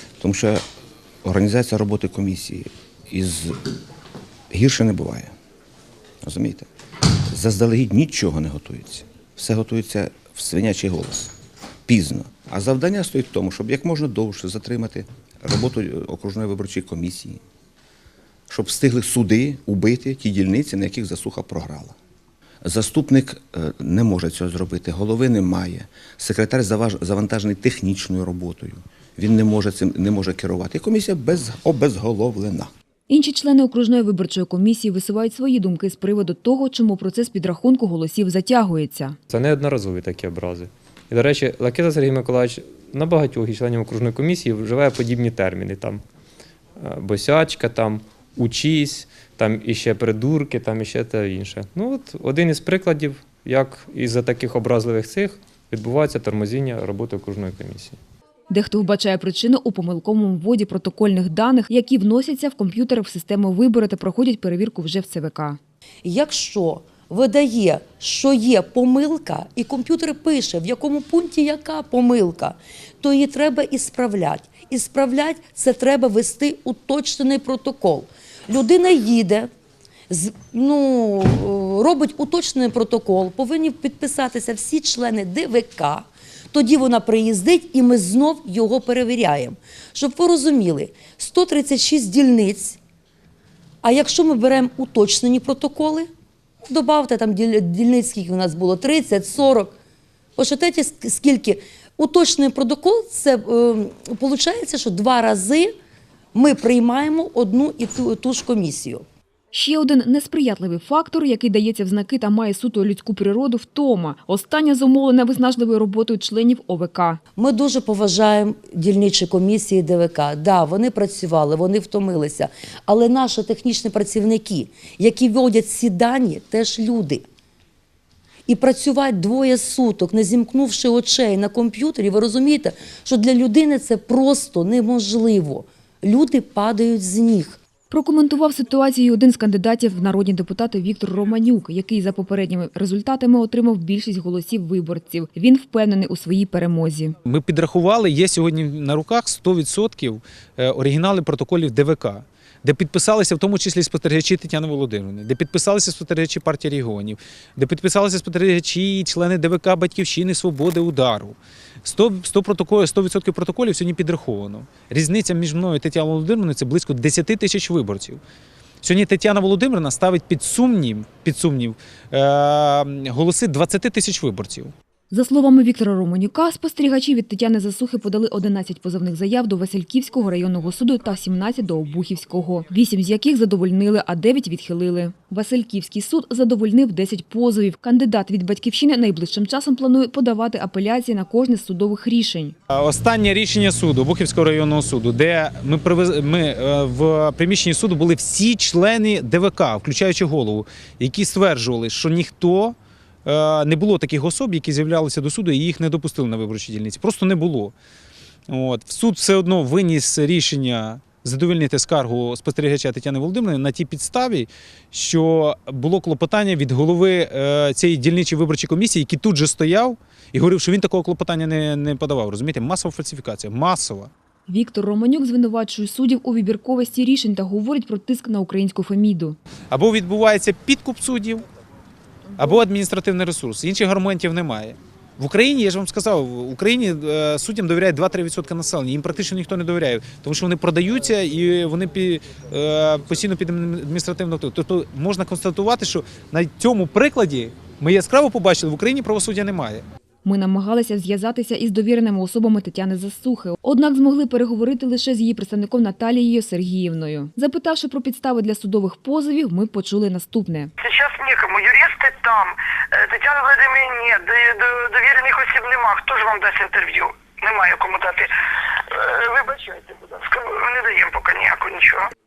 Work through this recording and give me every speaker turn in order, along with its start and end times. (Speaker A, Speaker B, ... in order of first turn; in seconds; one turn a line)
Speaker A: 0.2-0.6
Speaker A: 1.2-3.7
Speaker A: 4.5-5.3
Speaker A: 6.2-6.7
Speaker A: 7.3-11.3
Speaker A: 11.8-17.4
Speaker A: 18.5-21.9
Speaker A: 22.6-32.7
Speaker B: 33.1-39.1
Speaker C: 39.3-46.0
Speaker C: 46.8-58.0
Speaker B: 58.5-65.6
Speaker D: 66.0-79.5
Speaker D: 80.1-92.8
Speaker D: 93.8-96.1
Speaker D: 96.6-99.8
Speaker D: 100.3-105.7
Speaker D: 106.3-109.0
Speaker B: 109.5-117.2
Speaker D: 117.4-127.2
Speaker D: 128.5-137.6
Speaker B: 137.9-147.2
Speaker E: 147.2-168.2
Speaker E: 168.8-174.7
Speaker B: 175.1-192.5
Speaker E: 192.7-207.7
Speaker E: 208.5-224.1
Speaker B: 224.5-229.4
Speaker E: 229.7-231.4
Speaker E: 232.4-249.8
Speaker B: 250.2-260.7
Speaker F: 261.1-262.2
Speaker F: 265.2-267.0
Speaker F: 267.8-268.1
Speaker F: 269.5-270.0
Speaker F: 270.9-271.3